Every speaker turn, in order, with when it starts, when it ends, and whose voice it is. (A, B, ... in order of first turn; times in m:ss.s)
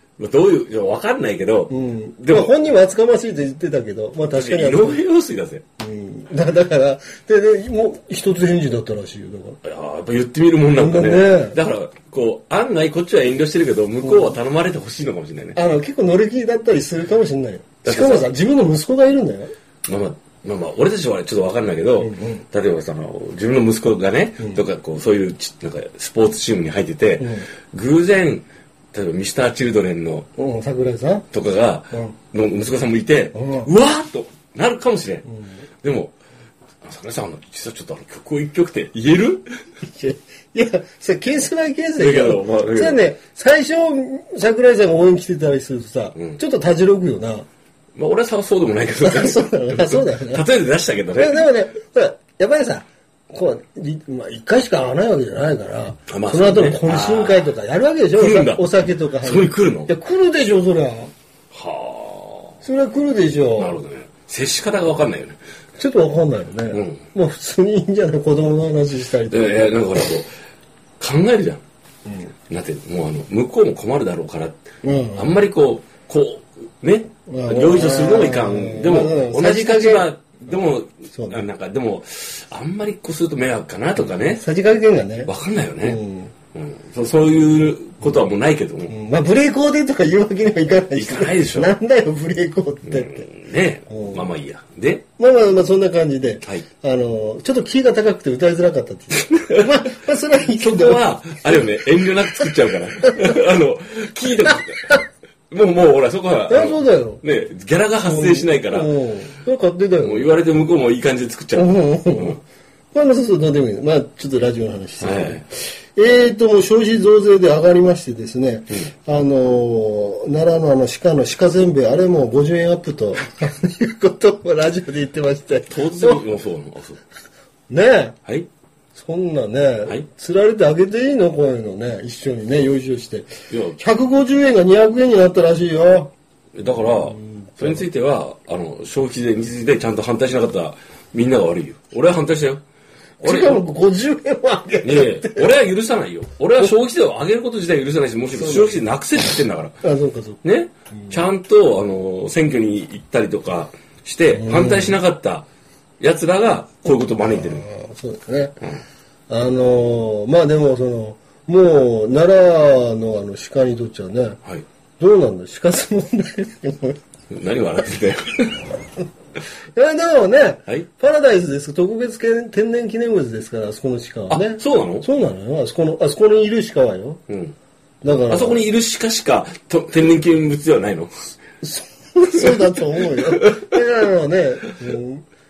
0:00.2-0:02.6 A
0:01.7-0:05.0 B
0:04.2-0:05.6 A
0:05.8-0:09.6 B
0:09.6-0:15.6 A
0:10.7-0:11.6 B
0:14.0-0:14.4 B
0:15.5-0:19.5 B
0:17.8-0:18.3 A
0:19.9-0:30.3 A
0:22.0-0:22.4 B
0:27.2-0:27.4 B
0:30.4-0:31.3 B
0:31.3-0:35.3 A
0:33.3-0:33.7 B
0:35.8-0:36.1 A
0:36.8-0:39.5 A
0:39.8-0:47.5 B
0:42.0-0:43.0 A
0:48.0-0:51.5 A
0:49.0-0:50.4 B
0:51.2-1:01.1 B
0:56.1-0:57.5 A
0:58.1-0:58.7 A
0:59.2-0:59.9 A
1:01.5-1:02.6 A
1:02.6-1:03.8 B
1:03.6-1:05.4 A
1:05.8-1:10.0 B
1:06.7-1:07.0 A
1:09.3-1:10.3 A
1:11.0-1:11.6 A
1:12.1-1:12.3 B
1:12.5-1:24.4 A
1:14.8-1:15.4 B
1:17.3-1:20.1 B
1:21.1-1:21.4 B
1:24.3-1:26.3 B
1:25.2-1:26.0 A
1:26.5-1:28.9 A
1:28.9-1:33.3 B
1:30.9-1:31.7 A
1:32.9-1:35.0 A
1:33.9-1:34.2 B
1:35.2-1:42.6 B
1:39.4-1:39.7 A
1:40.4-1:45.0 A
1:45.5-1:48.9 A
1:46.5-1:47.2 B
1:48.0-1:50.3 B
1:50.0-1:52.4 A
1:51.5-1:52.4 B
1:52.9-2:06.2 B
1:55.0-1:55.4 A
2:05.7-2:07.0 A
2:07.7-2:08.2 B
2:09.0-2:16.1 B
2:13.5-2:13.8 A
2:16.5-2:22.6 A
2:16.8-2:17.8 B
2:23.2-2:25.5 B
2:23.2-2:23.6 A
2:24.8-2:29.8 A
2:28.4-2:28.8 B
2:29.8-2:30.4 B
2:30.4-2:35.5 A
2:34.3-2:35.0 B
2:36.0-2:37.7 A
2:37.3-2:38.6 B
2:39.3-2:44.4 B
2:45.0-2:47.0 B
2:47.3-2:48.6 A
2:49.7-2:57.2 B
2:54.3-2:55.0 A
2:57.3-2:57.6 A
2:58.0-2:58.6 B
2:58.3-3:01.4 A
3:01.6-3:05.2 B
3:02.3-3:03.8 A